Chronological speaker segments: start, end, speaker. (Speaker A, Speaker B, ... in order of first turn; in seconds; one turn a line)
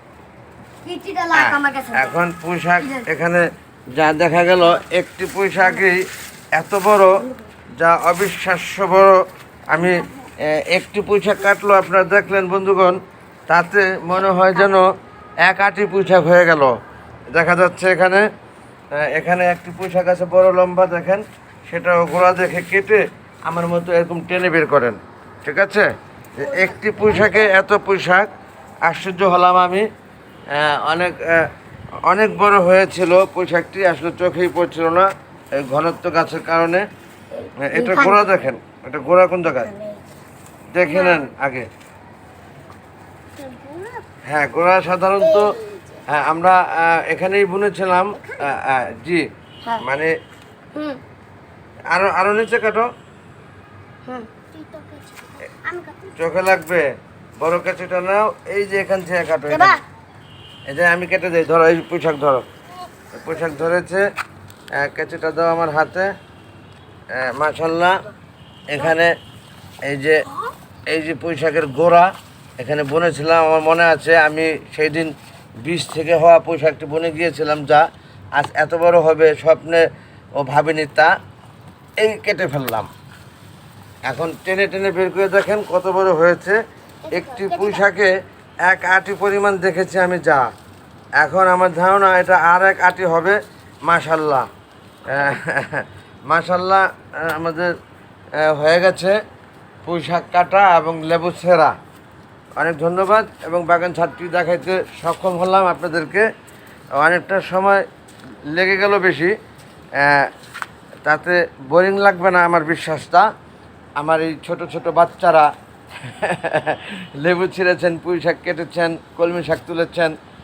Speaker A: 0.8-2.2
Speaker B: 1.3-6.0
Speaker A: 2.8-3.1
Speaker B: 6.5-7.2
Speaker B: 7.8-14.9
Speaker B: 15.4-16.7
Speaker B: 17.3-18.3
Speaker B: 18.9-25.9
Speaker B: 26.4-28.3
Speaker A: 26.4-27.5
Speaker B: 28.9-29.9
Speaker B: 30.5-31.5
Speaker B: 32.1-36.9
Speaker A: 37.4-38.3
Speaker B: 37.6-39.7
Speaker A: 39.6-40.0
Speaker B: 40.7-41.7
Speaker A: 40.8-41.3
Speaker A: 43.4-44.0
Speaker B: 44.3-45.5
Speaker A: 45.2-46.0
Speaker B: 46.1-49.2
Speaker A: 48.2-48.4
Speaker B: 49.8-50.1
Speaker A: 50.8-51.0
Speaker B: 51.9-52.9
Speaker A: 54.1-56.2
Speaker B: 56.2-56.9
Speaker B: 57.4-59.8
Speaker A: 59.5-59.8
Speaker B: 60.7-62.4
Speaker B: 63.2-64.0
Speaker B: 64.8-66.1
Speaker B: 67.1-68.0
Speaker B: 68.7-69.1
Speaker B: 69.8-70.2
Speaker B: 70.9-79.8
Speaker B: 80.4-81.1
Speaker B: 82.0-82.9
Speaker B: 84.1-86.6
Speaker A: 87.1-87.9
Speaker B: 87.1-90.5
Speaker B: 91.2-94.5
Speaker B: 95.1-97.7
Speaker B: 98.4-99.2
Speaker B: 99.8-101.8
Speaker B: 102.6-106.3
Speaker B: 107.0-107.8
Speaker B: 108.5-109.3
Speaker B: 110.0-110.3
Speaker B: 111.0-113.3
Speaker B: 114.0-115.5
Speaker B: 116.0-120.1